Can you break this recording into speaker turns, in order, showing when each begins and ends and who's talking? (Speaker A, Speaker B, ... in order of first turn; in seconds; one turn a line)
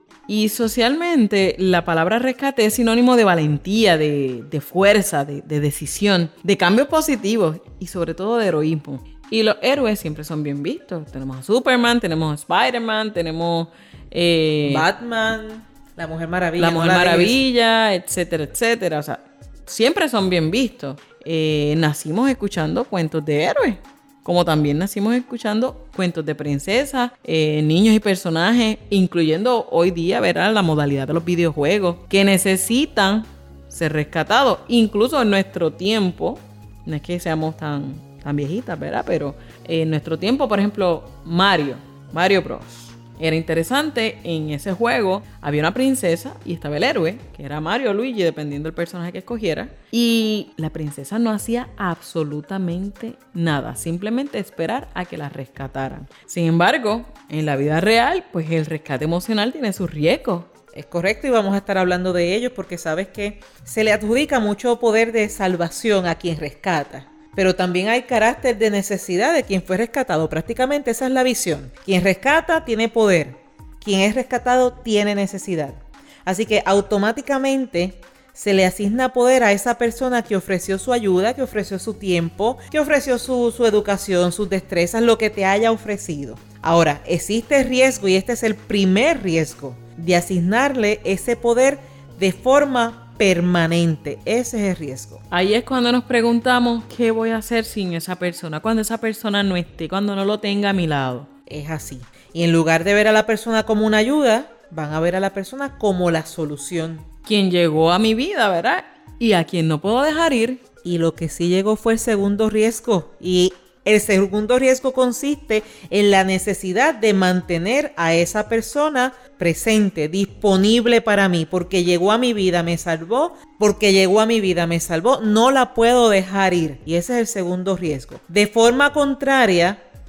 Speaker A: 0.3-14.9
Speaker B: 14.6-17.4
Speaker A: 16.6-60.5
Speaker B: 60.7-95.2
Speaker A: 95.3-101.3
Speaker B: 101.5-107.0
Speaker A: 107.2-110.6
Speaker B: 110.8-129.8